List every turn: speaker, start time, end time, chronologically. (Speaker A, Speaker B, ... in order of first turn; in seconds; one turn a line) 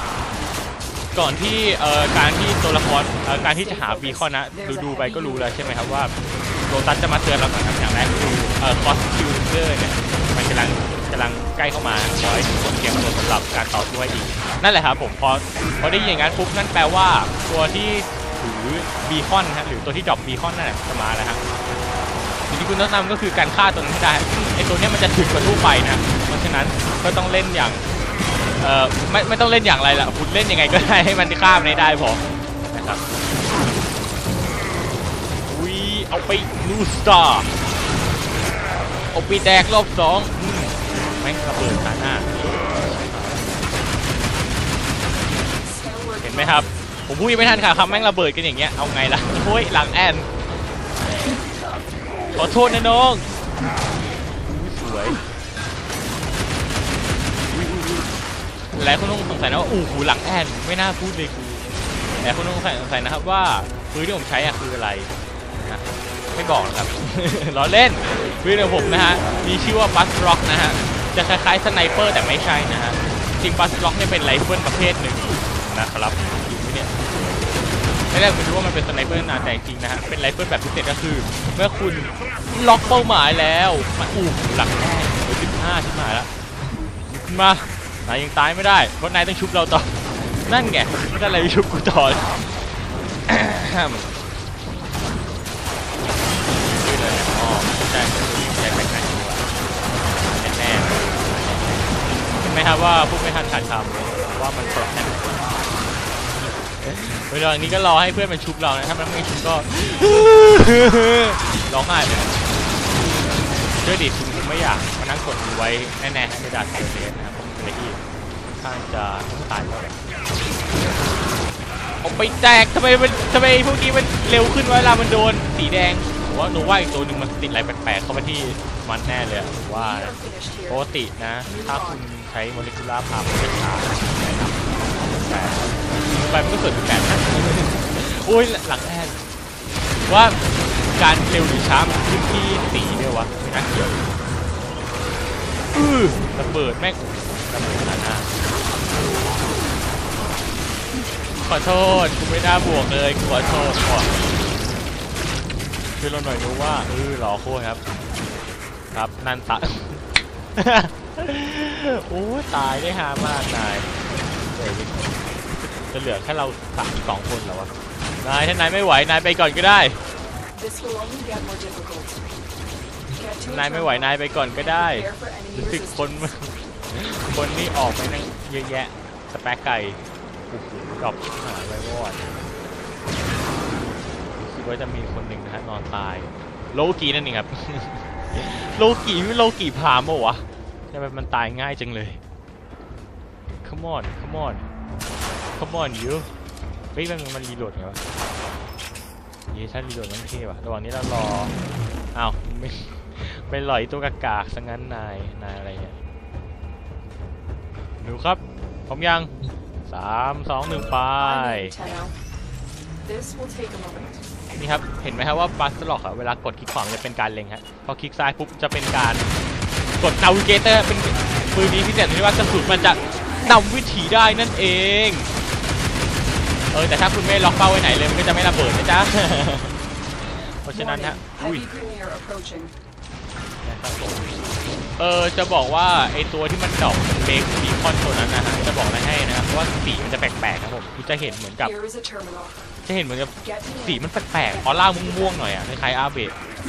Speaker A: 1.1-6.1
Speaker B: 3.6-5.7
Speaker A: 6.7-21.4
Speaker A: 22.5-27.9
Speaker A: 28.6-33.0
Speaker A: 35.5-37.6
Speaker A: 39.1-43.7
Speaker B: 45.6-46.7
Speaker A: 46.2-50.3
Speaker B: 47.6-48.0
Speaker A: 52.3-53.3
Speaker A: 54.4-55.2
Speaker A: 57.5-58.1
Speaker A: 58.7-77.4
Speaker A: 78.1-86.3
Speaker A: 87.2-92.6
Speaker A: 93.3-94.1
Speaker A: 96.7-99.5
Speaker A: 100.0-101.8
Speaker A: 102.4-105.6
Speaker A: 106.3-112.4
Speaker A: 113.8-118.0
Speaker A: 118.6-120.0
Speaker A: 122.0-130.2
Speaker B: 129.7-130.9
Speaker A: 130.7-139.2
Speaker B: 131.4-132.0
Speaker A: 140.1-144.1
Speaker A: 145.7-148.3
Speaker A: 151.4-154.2
Speaker A: 156.0-157.8
Speaker A: 158.9-160.0
Speaker A: 160.6-163.9
Speaker A: 164.5-170.0
Speaker B: 170.5-172.2
Speaker B: 173.1-176.3
Speaker A: 173.4-182.4
Speaker A: 184.3-192.2
Speaker A: 193.6-194.7
Speaker A: 195.6-196.3
Speaker A: 196.9-198.0
Speaker A: 199.5-201.6
Speaker A: 202.1-205.9
Speaker A: 208.0-209.3
Speaker A: 209.8-211.7
Speaker B: 211.2-212.2
Speaker B: 213.0-214.2
Speaker A: 214.6-219.3
Speaker A: 220.0-225.3
Speaker A: 226.7-229.8
Speaker A: 230.4-231.7
Speaker B: 230.7-232.8
Speaker A: 233.6-234.3
Speaker A: 235.0-241.7
Speaker B: 241.6-242.6
Speaker A: 242.8-246.3
Speaker B: 243.4-245.3